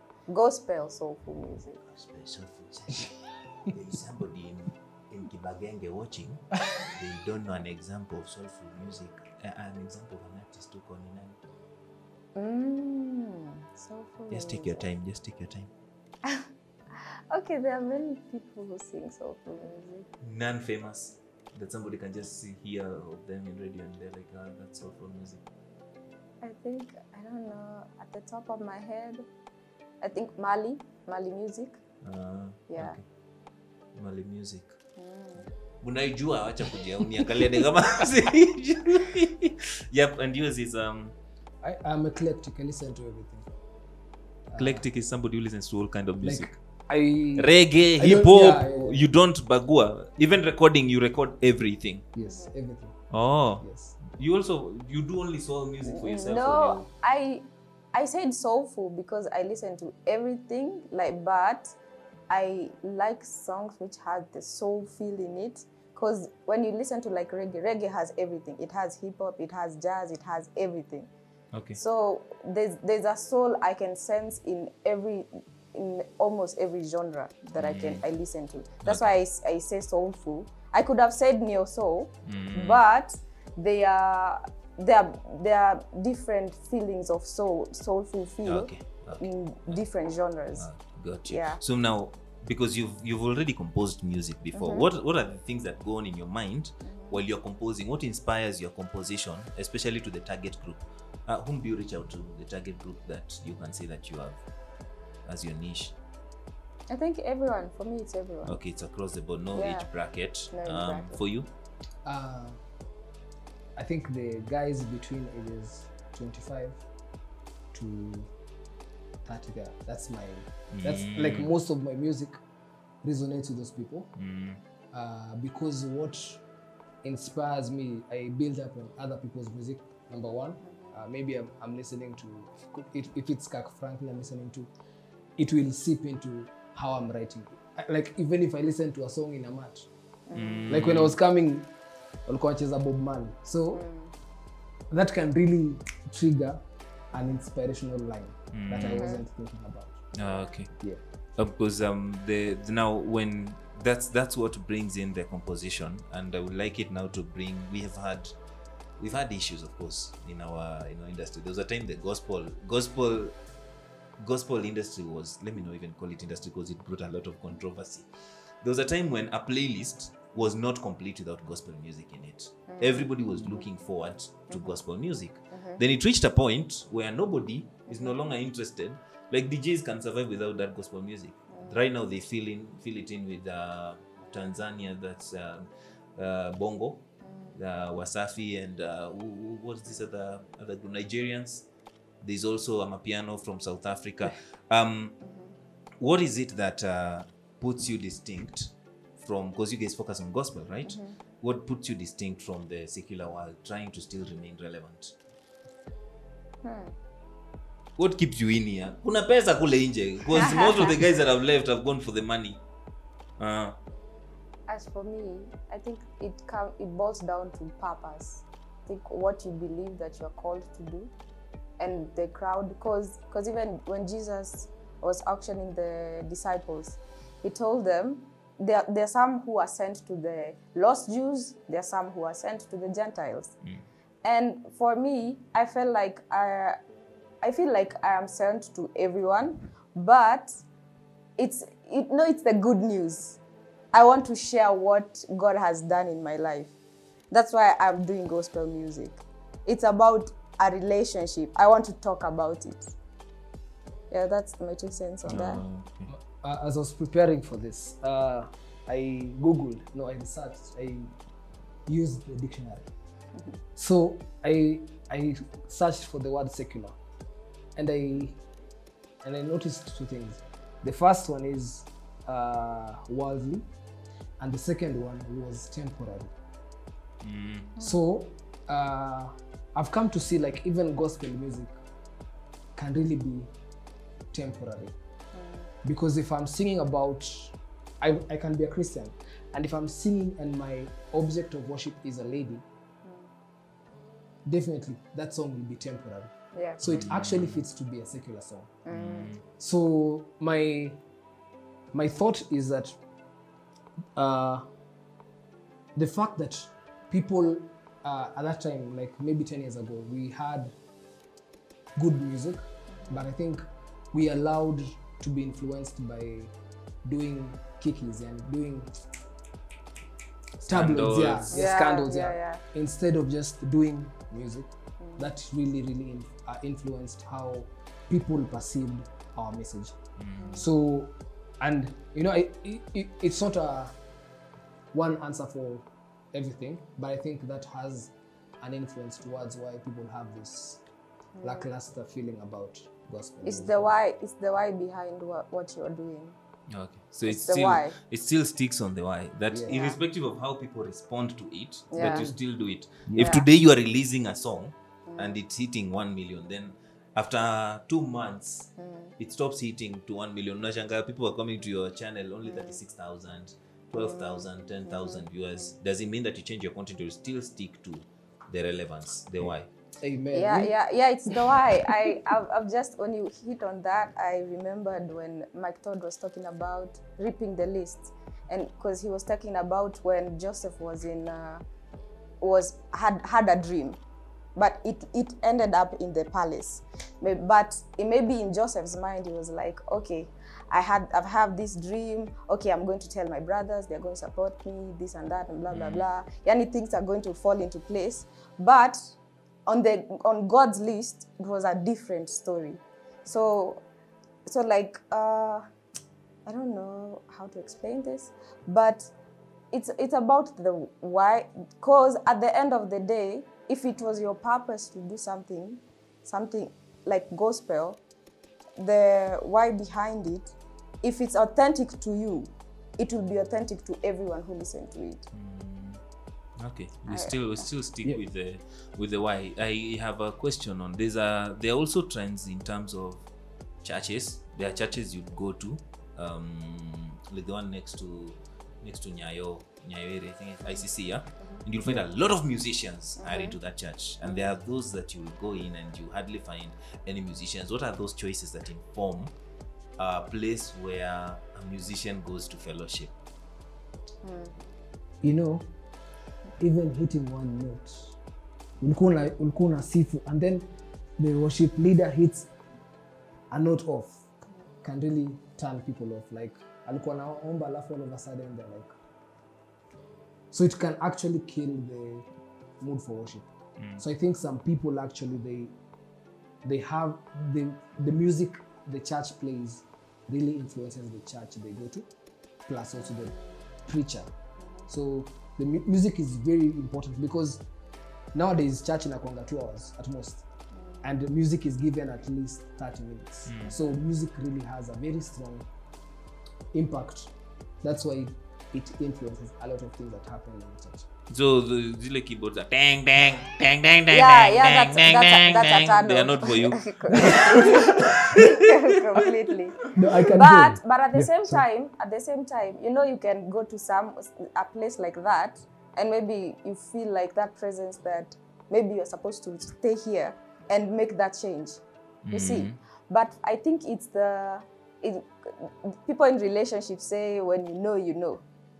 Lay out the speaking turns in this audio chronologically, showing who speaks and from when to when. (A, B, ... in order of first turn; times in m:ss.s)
0:00.3-0:01.8 A
0:01.9-0:11.4 B
0:12.3-0:14.9 A
0:14.3-0:15.7 B
0:17.0-0:20.1 A
0:20.2-0:25.4 B
0:26.4-0:29.2 A
0:30.0-0:31.8 A
0:32.0-0:33.0 B
0:32.7-0:32.9 A
0:33.9-0:34.7 B
0:35.0-0:35.5 A
0:35.8-0:41.1 B
0:41.6-0:43.5 C
0:44.5-0:44.8 C
0:44.6-0:46.5 B
0:46.2-0:49.0 C
0:47.4-0:52.0 B
0:52.1-0:54.0 C
0:52.2-0:52.5 A
0:53.1-0:56.9 B
0:55.8-1:01.7 A
1:02.3-1:11.1 A
1:11.5-1:11.8 B
1:11.8-1:30.6 A
1:17.6-1:18.0 B
1:18.8-1:19.1 B
1:22.2-1:22.8 B
1:28.4-1:29.8 B
1:30.6-1:44.4 B
1:31.2-1:31.6 A
1:34.5-1:34.9 A
1:36.8-1:37.2 A
1:45.2-1:46.0 B
1:46.9-1:48.6 A
1:48.4-1:51.5 B
1:49.5-1:49.9 A
1:50.5-1:51.2 A
1:52.0-1:52.6 C
1:53.8-1:56.8 C
1:57.7-1:58.3 C
1:59.2-2:02.4 C
2:00.7-2:01.5 B
2:03.0-2:04.1 C
2:04.2-2:04.6 B
2:04.9-2:06.4 C
2:07.0-2:14.7 C
2:10.6-2:10.9 A
2:15.4-2:19.9 C
2:20.3-2:20.7 A
2:20.3-2:21.2 B
2:20.7-2:21.7 C
2:22.2-2:23.8 C
2:23.7-2:24.1 A
2:24.9-2:30.0 C
2:28.5-2:29.0 B
2:28.9-2:29.2 A
2:30.2-2:30.7 B
2:30.2-2:30.6 A
2:31.4-2:38.3 B
2:39.0-2:43.3 B
2:44.2-2:48.0 B
2:48.6-3:11.7 B
2:52.7-2:53.6 A
2:54.5-2:54.8 A
2:55.5-2:55.8 A
2:57.9-2:58.1 A
3:01.5-3:01.8 A
3:04.2-3:04.5 A
3:07.2-3:07.6 A
3:12.2-3:15.2 B
3:15.2-3:15.5 A
3:16.0-3:25.1 B
3:20.8-3:21.1 A
3:26.6-3:26.9 A
3:28.0-3:32.6 B
3:33.4-3:33.8 B
3:34.7-3:41.1 A
3:41.8-3:53.5 A
3:54.2-3:56.8 A
3:57.4-4:00.6 A
4:01.4-4:03.4 A
4:03.9-4:06.7 A
4:07.3-4:12.9 A
4:14.1-4:15.6 A
4:15.2-4:16.1 B
4:16.1-4:21.1 C
4:21.9-4:22.9 C
4:23.8-4:27.0 C
4:27.8-4:28.4 C
4:29.2-4:33.7 C
4:34.4-4:36.3 C
4:37.2-4:37.7 B
4:37.8-4:41.8 C
4:42.8-4:43.5 C
4:44.3-4:44.9 C
4:45.3-4:45.7 A
4:45.8-4:52.6 C
4:53.0-4:53.3 A
4:54.4-4:58.7 C
4:56.5-4:57.0 A
4:56.8-4:57.6 B
4:58.8-4:59.3 A
4:58.9-4:59.4 B
4:59.6-5:01.0 C
5:01.9-5:03.0 C
5:04.2-5:04.6 C
5:06.0-5:10.7 C
5:12.0-5:16.5 C
5:12.9-5:13.2 A
5:17.0-5:18.9 C
5:20.6-5:30.0 C
5:20.7-5:21.6 B
5:21.5-5:22.6 A
5:25.0-5:25.3 A
5:30.2-5:30.7 B
5:30.4-5:30.7 A
5:30.5-5:33.9 C
5:34.9-5:40.8 C
5:41.4-5:41.6 A
5:41.4-5:43.9 C
5:43.4-5:46.4 A
5:46.7-6:09.7 B
5:47.2-5:47.9 A
5:49.5-5:49.8 C
5:49.7-5:50.0 A
5:51.9-5:52.3 A
5:52.0-5:52.4 C
5:53.0-5:53.4 C
5:53.2-5:53.4 A
5:55.1-5:55.4 A
5:58.8-5:59.1 A
6:02.4-6:02.8 A
6:03.9-6:05.7 A
6:10.0-6:10.7 C
6:10.3-6:21.6 A
6:22.4-6:24.0 A
6:24.6-6:39.0 A
6:35.7-6:36.0 B
6:39.6-6:43.8 A
6:44.4-6:45.6 A
6:46.4-6:49.1 A
6:49.7-6:58.0 A
6:58.8-7:05.2 A
7:05.3-7:06.0 B
7:06.6-7:13.2 B
7:07.1-7:07.6 A
7:13.8-7:29.3 B
7:23.2-7:23.6 A
7:24.2-7:24.5 A
7:30.0-7:33.1 B
7:34.2-7:34.7 A
7:35.2-7:35.6 C
7:36.6-7:38.1 C
7:38.8-7:42.5 C
7:43.5-7:44.2 C
7:44.8-7:48.9 C
7:50.5-7:52.2 C
7:52.8-7:55.7 C
7:56.6-8:02.1 C
8:02.7-8:04.3 C
8:02.9-8:03.6 A
8:04.6-8:04.8 A
8:04.9-8:07.6 C
8:08.3-8:10.4 C
8:10.7-8:11.0 A
8:11.0-8:15.6 C
8:13.5-8:13.8 B
8:16.7-8:21.1 C
8:21.3-8:28.4 B
8:24.1-8:41.8 A
8:29.9-8:31.6 C
8:42.2-8:42.8 B
8:42.3-8:48.4 A